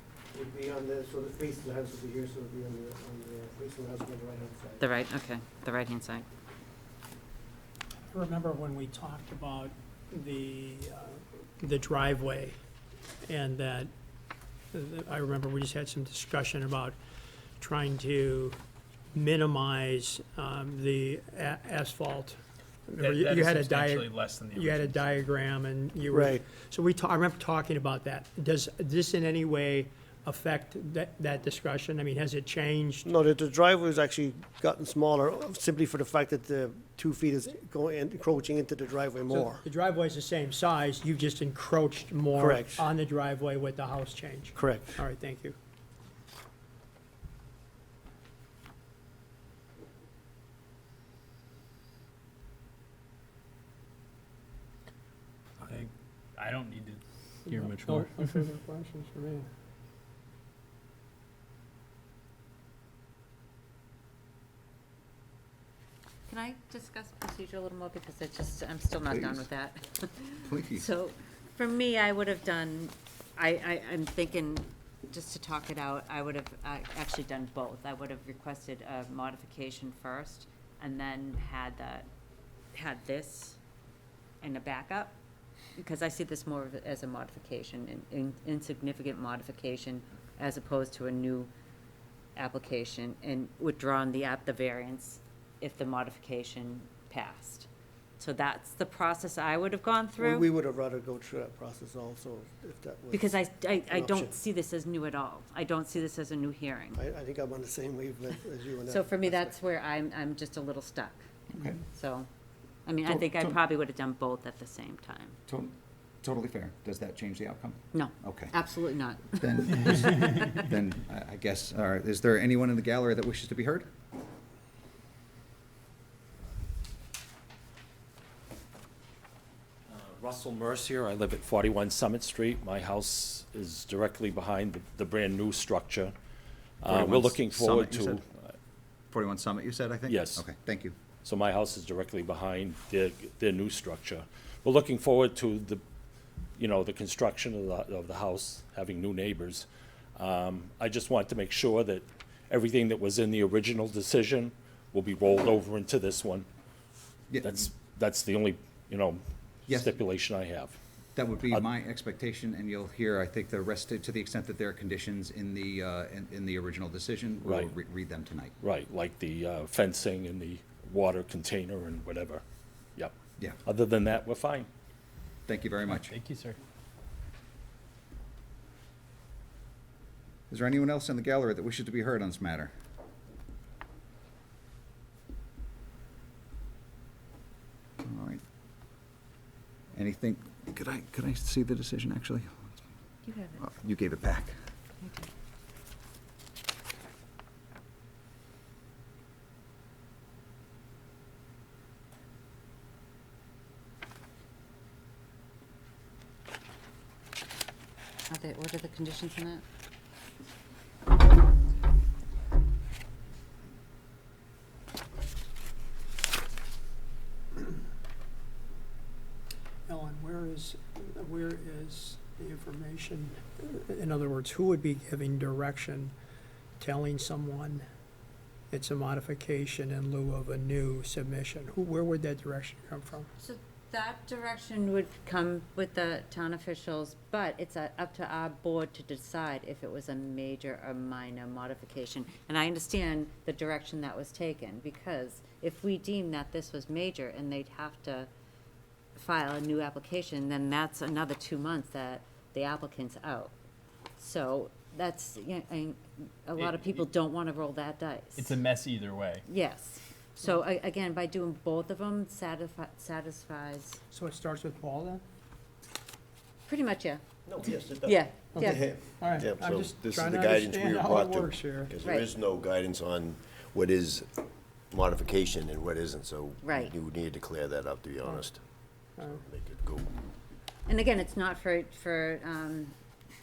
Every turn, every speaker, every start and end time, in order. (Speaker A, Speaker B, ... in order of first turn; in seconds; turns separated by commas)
Speaker A: 0.3-4.8, Speaker B: 4.8-6.2, Speaker C: 8.1-12.6, Speaker C: 13.3-13.9, Speaker C: 14.7-17.0, Speaker C: 17.6-18.6, Speaker C: 19.1-33.1, Speaker D: 23.0-25.1, Speaker A: 26.1-26.4, Speaker A: 33.0-39.6, Speaker C: 39.3-45.6, Speaker A: 42.3-42.8, Speaker A: 44.5-45.0, Speaker D: 55.6-58.4, Speaker C: 57.5-59.5, Speaker B: 66.3-82.1, Speaker E: 69.1-69.5, Speaker E: 70.5-70.8, Speaker B: 82.7-83.6, Speaker B: 84.4-85.2, Speaker B: 85.8-91.5, Speaker B: 92.4-97.7, Speaker B: 98.2-100.5, Speaker A: 100.2-104.3, Speaker B: 103.1-107.0, Speaker A: 106.9-109.5, Speaker B: 108.9-111.3, Speaker E: 111.5-111.8, Speaker B: 111.8-112.3, Speaker B: 112.9-115.4, Speaker E: 113.1-113.5, Speaker E: 115.5-118.5, Speaker B: 117.9-120.5, Speaker E: 119.3-123.9, Speaker F: 129.9-136.1, Speaker F: 136.8-138.5, Speaker E: 136.8-138.2, Speaker E: 139.1-140.9, Speaker F: 140.1-140.4, Speaker F: 141.2-145.8, Speaker F: 146.6-156.5, Speaker E: 157.3-157.7, Speaker F: 157.4-160.8, Speaker E: 159.7-159.9, Speaker E: 161.2-168.5, Speaker F: 167.4-167.7, Speaker F: 168.6-172.4, Speaker F: 173.7-174.7, Speaker E: 175.5-176.2, Speaker D: 175.9-176.6, Speaker E: 180.5-182.7, Speaker E: 188.0-188.4, Speaker E: 189.9-192.7, Speaker B: 193.2-193.6, Speaker E: 193.6-194.6, Speaker B: 195.0-195.3, Speaker B: 208.3-209.6, Speaker C: 219.9-226.1, Speaker C: 226.8-227.8, Speaker C: 228.7-233.3, Speaker B: 233.4-248.3, Speaker B: 249.2-253.5, Speaker B: 254.2-258.6, Speaker D: 256.6-256.9, Speaker D: 258.4-259.4, Speaker B: 259.4-264.0, Speaker C: 264.1-265.2, Speaker B: 266.7-267.2, Speaker G: 267.5-278.6, Speaker B: 268.0-268.8, Speaker C: 268.5-272.0, Speaker B: 272.0-272.3, Speaker B: 276.6-276.9, Speaker G: 279.2-280.1, Speaker B: 280.9-282.9